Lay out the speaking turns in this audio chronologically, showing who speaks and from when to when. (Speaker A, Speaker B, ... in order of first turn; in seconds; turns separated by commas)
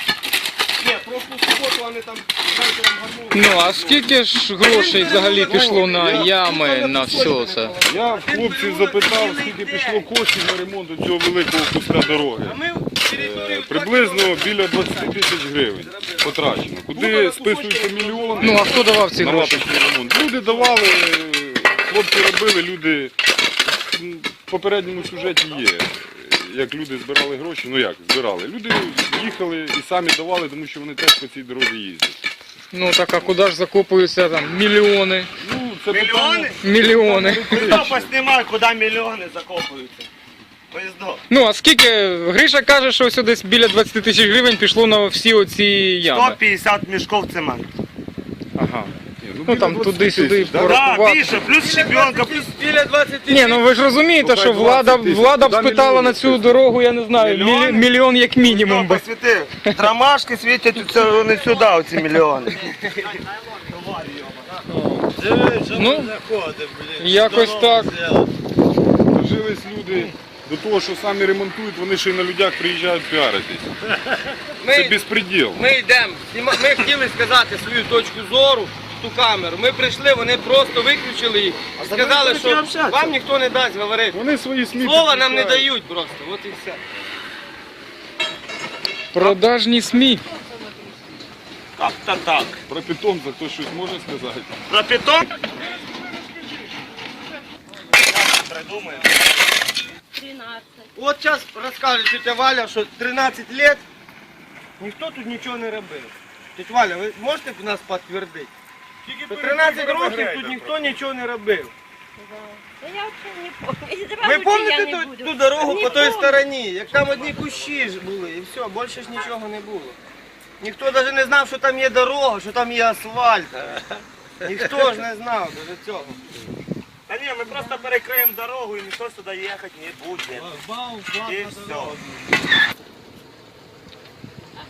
Speaker A: 0.8-4.0, Speaker B: 3.3-7.8, Speaker C: 4.6-6.6, Speaker A: 4.9-5.2, Speaker D: 5.5-5.8, Speaker A: 5.9-8.0, Speaker D: 7.8-23.1, Speaker C: 7.9-10.1, Speaker C: 12.4-15.2, Speaker C: 15.7-16.4, Speaker A: 17.0-18.9, Speaker C: 18.3-18.8, Speaker B: 18.4-19.7, Speaker D: 23.7-32.2, Speaker B: 32.7-35.3, Speaker D: 35.4-38.1, Speaker E: 35.9-36.6, Speaker B: 36.6-37.8, Speaker E: 37.3-40.1, Speaker E: 40.7-41.2, Speaker B: 41.3-46.4, Speaker E: 46.1-47.7, Speaker B: 48.6-48.9, Speaker D: 49.2-50.9, Speaker B: 49.5-51.4, Speaker E: 50.6-52.5, Speaker C: 51.5-53.6, Speaker B: 53.3-59.0, Speaker D: 54.2-56.6, Speaker E: 57.2-57.9, Speaker E: 58.4-68.3, Speaker B: 65.7-66.1, Speaker B: 67.0-67.9, Speaker D: 69.1-73.7, Speaker C: 74.6-84.2, Speaker D: 74.7-75.6, Speaker E: 81.8-83.1, Speaker D: 84.1-85.7, Speaker C: 84.8-86.8, Speaker B: 89.1-90.3, Speaker E: 91.8-92.6, Speaker D: 92.7-94.5, Speaker E: 94.7-95.3, Speaker E: 97.9-99.2, Speaker F: 100.1-100.9, Speaker C: 101.0-103.8, Speaker C: 104.8-108.5, Speaker A: 109.0-111.0, Speaker C: 109.3-111.7, Speaker F: 112.2-116.4, Speaker C: 114.2-120.0, Speaker C: 120.6-126.2, Speaker E: 127.1-132.0, Speaker A: 130.8-131.9